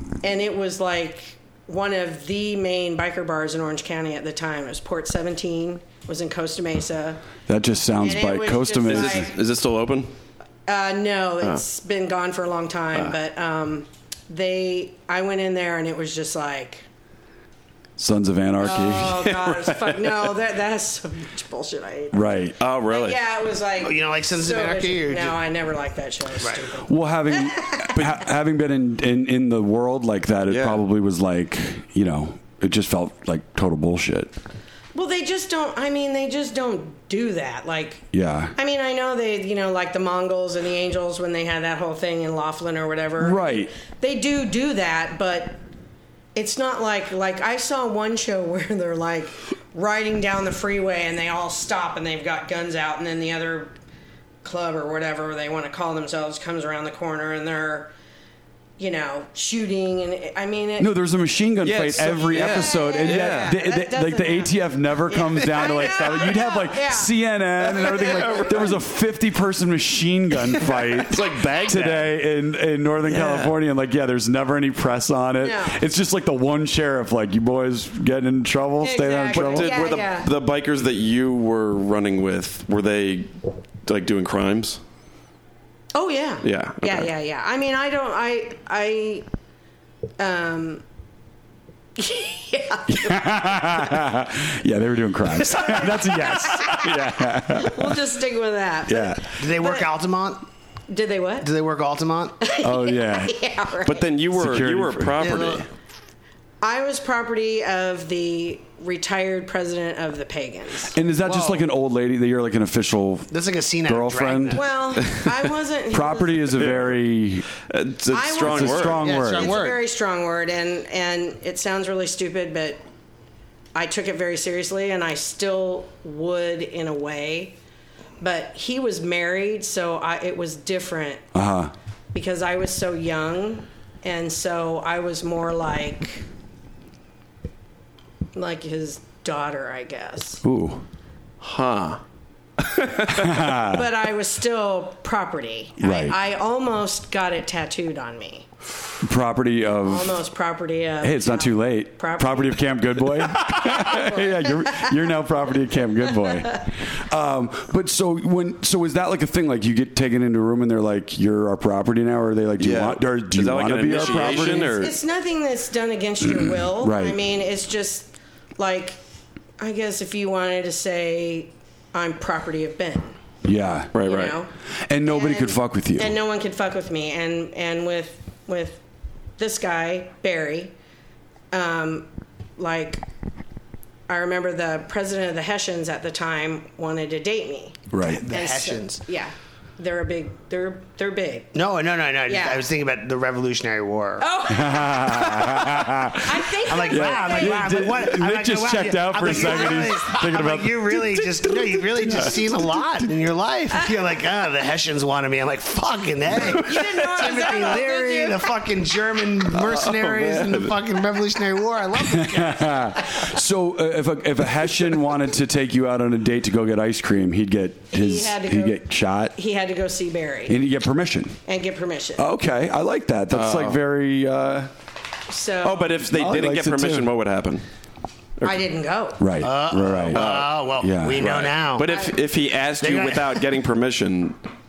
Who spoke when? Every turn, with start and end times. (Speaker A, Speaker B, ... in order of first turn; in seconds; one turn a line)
Speaker A: 0.2-7.2
Speaker B: 7.5-9.3
Speaker A: 8.0-9.3
Speaker C: 8.8-10.1
Speaker A: 10.7-16.9
Speaker B: 18.0-19.3
Speaker A: 18.6-27.9
Speaker C: 18.7-20.3
Speaker B: 22.1-22.6
Speaker C: 22.6-23.2
Speaker D: 23.8-25.4
Speaker B: 26.9-34.3
Speaker C: 30.5-30.8
Speaker A: 34.9-38.0
Speaker B: 38.1-38.5
Speaker A: 38.6-45.6
Speaker B: 43.2-43.7
Speaker A: 46.4-53.7
Speaker A: 54.4-57.9
Speaker A: 58.8-60.9
Speaker B: 60.8-79.9
Speaker C: 61.6-63.6
Speaker A: 62.3-67.2
Speaker C: 67.8-68.8
Speaker A: 68.0-68.5
Speaker C: 71.1-72.2
Speaker C: 73.1-73.6
Speaker A: 75.4-75.8
Speaker A: 78.8-80.3
Speaker C: 79.3-84.8
Speaker A: 86.0-89.3
Speaker C: 86.4-87.1
Speaker A: 90.2-90.8
Speaker A: 92.0-93.6
Speaker B: 92.9-98.0
Speaker A: 95.5-99.9
Speaker B: 98.9-99.3
Speaker D: 99.4-100.4
Speaker A: 100.9-101.5
Speaker D: 101.4-102.4
Speaker A: 102.4-104.1
Speaker B: 102.6-103.4
Speaker C: 103.8-105.7
Speaker B: 104.3-105.2
Speaker D: 105.2-105.7
Speaker A: 106.6-111.0
Speaker B: 110.9-113.3
Speaker D: 111.2-111.7
Speaker D: 113.3-114.6
Speaker B: 113.8-114.6
Speaker A: 114.5-116.6
Speaker C: 115.0-115.3
Speaker B: 115.9-117.5
Speaker C: 116.6-117.0
Speaker C: 117.7-119.1
Speaker A: 118.1-122.8
Speaker B: 118.4-119.6
Speaker D: 119.0-119.8
Speaker A: 123.8-127.6
Speaker A: 128.2-131.2
Speaker B: 131.3-131.7
Speaker A: 132.1-136.2
Speaker A: 138.3-140.4
Speaker B: 140.4-140.8
Speaker C: 141.4-142.0
Speaker C: 142.6-143.5
Speaker B: 143.1-143.8
Speaker A: 143.7-148.5
Speaker B: 145.8-146.2
Speaker B: 149.0-150.2
Speaker A: 149.9-152.7
Speaker B: 151.0-164.8
Speaker A: 153.6-154.9
Speaker C: 162.6-164.9
Speaker A: 164.2-169.0
Speaker B: 166.4-167.2
Speaker A: 169.6-173.2
Speaker B: 173.4-173.9
Speaker C: 173.9-174.4
Speaker A: 174.0-174.5
Speaker B: 174.9-176.2
Speaker A: 175.1-178.8
Speaker A: 179.4-180.7
Speaker A: 181.5-183.0
Speaker A: 184.1-191.6
Speaker B: 187.9-188.2
Speaker D: 188.1-189.0
Speaker D: 191.5-194.3
Speaker A: 192.3-192.7
Speaker A: 194.2-195.6
Speaker B: 194.5-201.2
Speaker A: 196.1-198.0
Speaker D: 196.7-213.2
Speaker A: 199.3-200.0
Speaker C: 202.0-202.3
Speaker B: 202.0-202.3
Speaker A: 206.6-208.5
Speaker C: 209.5-210.8
Speaker B: 212.1-219.3
Speaker A: 217.9-218.8
Speaker A: 219.3-220.6
Speaker B: 220.5-221.4
Speaker A: 221.5-222.3
Speaker B: 222.2-224.7
Speaker C: 223.3-223.8
Speaker A: 225.3-226.0
Speaker C: 225.6-227.6
Speaker B: 226.1-227.1
Speaker A: 228.4-229.3
Speaker B: 229.2-230.2
Speaker D: 229.4-231.9
Speaker C: 230.1-230.6
Speaker B: 230.8-231.4
Speaker C: 231.2-234.4
Speaker A: 231.9-232.2
Speaker D: 232.8-233.4